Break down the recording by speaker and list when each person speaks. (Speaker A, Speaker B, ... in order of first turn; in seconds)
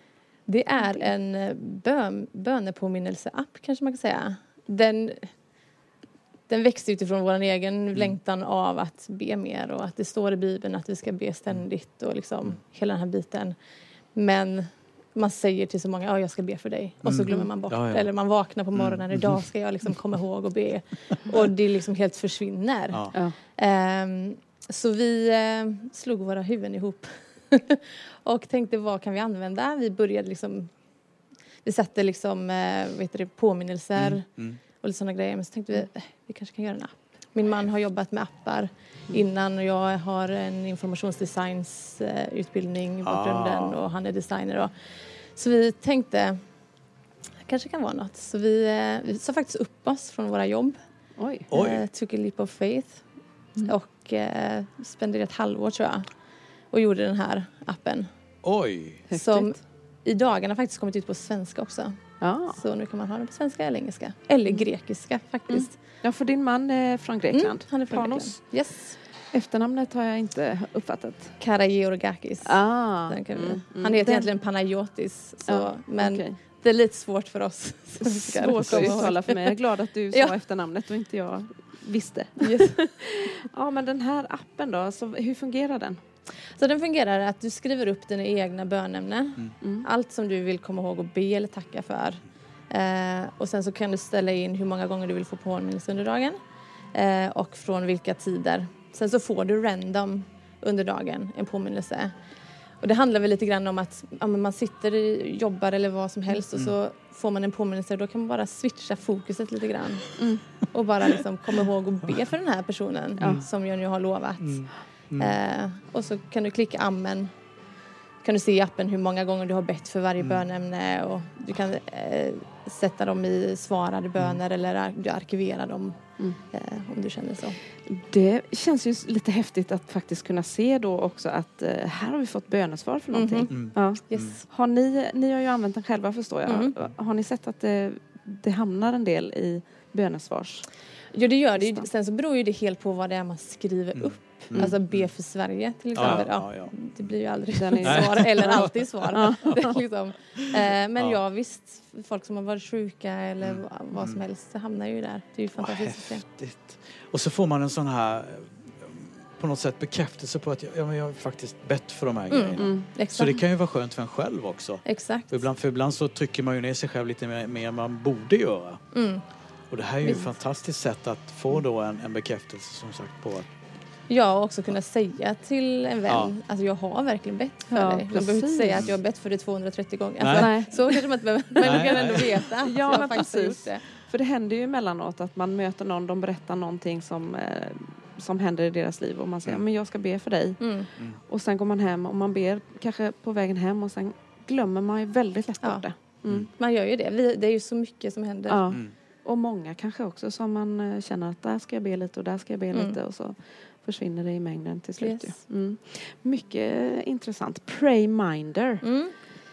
Speaker A: 0.5-5.3, 6.5-13.5, 14.1-30.7, 31.6-46.5, 47.4-50.8, 51.5-56.2, 56.7-58.1, 59.1-65.8, 67.3-69.0, 71.4-79.5, 82.4-82.7, 86.5-102.1, 102.8-117.3, 118.2-127.6, 133.1-134.5, 136.4-136.7, 141.1-156.2, 162.3-163.4, 164.8-165.4, 168.9-169.3, 170.0-170.3, 174.1-183.8, 190.6-190.9, 195.6-198.7, 202.7-203.0, 205.0-205.3, 208.8-209.2
Speaker B: 0.8-1.0, 51.2-51.5, 59.1-59.6, 62.2-62.6, 65.5-71.4, 72.4-74.3, 75.5-76.4, 78.0-86.0, 89.6-89.8, 110.2-110.4, 113.2-113.4, 127.8-140.7, 141.6-141.8, 147.5-149.7, 162.6-162.9, 177.7-178.9, 180.3-196.4, 198.5-208.8
Speaker C: 17.0-19.5, 22.9-23.2, 34.0-34.6, 43.0-43.8, 51.5-51.8, 58.4-59.1, 113.2-113.5, 114.4-115.3, 133.5-134.3, 143.9-148.8, 153.4-154.2, 155.6-173.5, 176.1-176.3, 180.2-180.7, 181.6-182.5, 196.2-196.5